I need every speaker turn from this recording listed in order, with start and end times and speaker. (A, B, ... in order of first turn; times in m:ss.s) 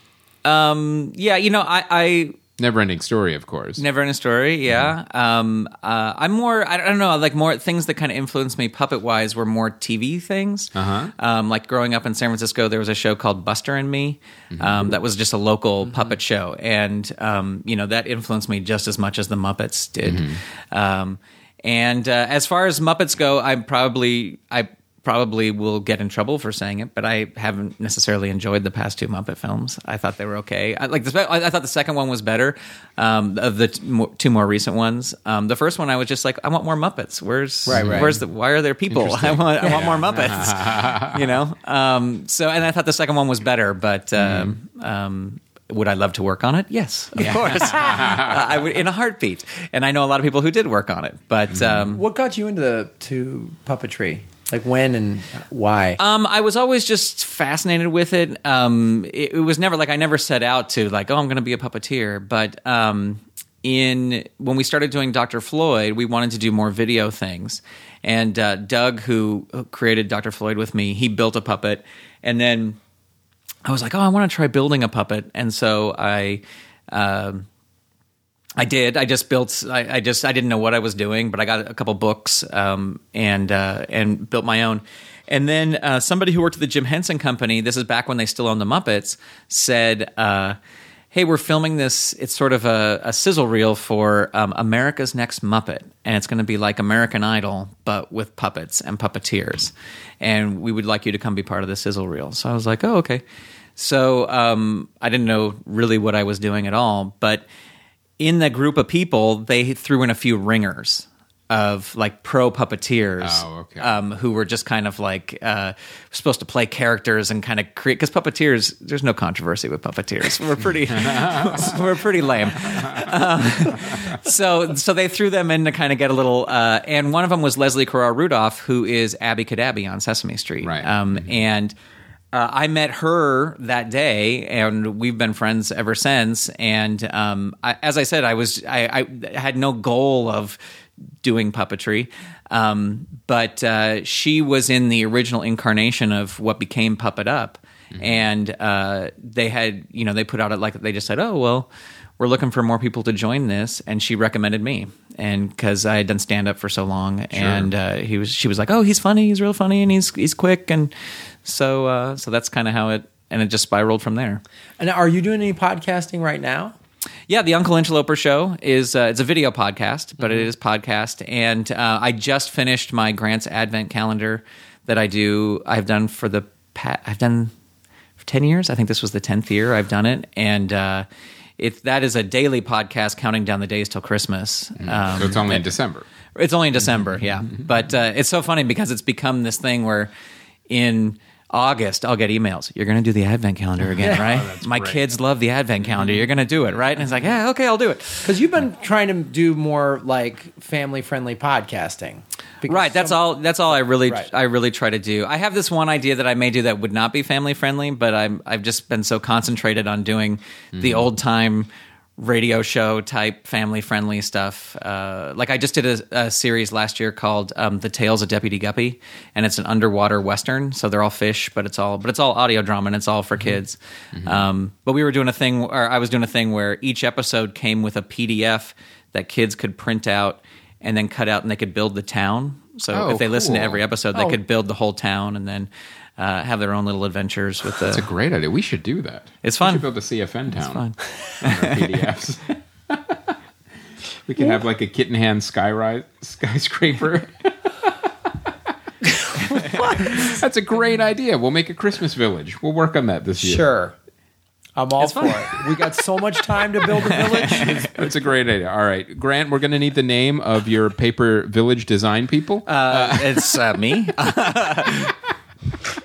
0:00.4-0:02.4 A
0:02.6-0:03.8 B
0:03.8-0:52.0 A
0:10.8-0:11.1 B
0:14.5-0:14.9 B
0:20.0-0:20.4 B
0:37.7-0:38.2 C
0:37.7-0:38.2 B
0:38.9-0:41.4 B
0:44.2-0:44.5 B
0:47.2-0:48.6 B
0:47.2-0:48.0 C
0:51.5-0:51.8 B
0:51.7-0:56.0 C
0:56.0-1:12.8 A
1:13.6-1:17.5 A
1:18.6-1:30.6 A
1:31.1-1:43.2 A
1:43.8-1:47.4 A
1:48.2-2:11.8 A
1:53.2-1:54.0 B
2:00.9-2:01.8 B
2:02.7-2:03.1 B
2:03.8-2:04.2 B
2:10.6-2:10.9 B
2:12.3-2:20.6 A
2:21.2-2:40.9 A
2:27.9-2:28.2 B
2:37.3-2:37.7 B
2:41.4-2:44.4 A
2:44.8-2:46.8 C
2:47.3-2:57.5 A
2:58.2-3:01.1 A
3:01.6-3:05.7 A
3:04.8-3:06.1 B
3:06.4-3:10.1 A
3:10.7-3:18.3 A
3:13.8-3:15.0 B
3:15.9-3:16.2 B
3:18.2-3:23.2 C
3:22.7-3:58.1 A
3:30.7-3:31.1 B
3:44.2-3:44.5 B
3:52.9-3:53.8 B
3:57.8-4:00.8 B
3:59.4-3:59.9 A
4:00.5-4:02.0 A
4:01.4-4:03.4 B
4:04.3-4:07.5 B
4:09.2-4:10.3 C
4:09.4-4:13.7 B
4:13.4-4:14.0 C
4:14.8-4:17.9 C
4:15.0-4:15.5 A
4:17.0-4:18.1 A
4:17.1-4:23.6 B
4:22.7-4:25.2 A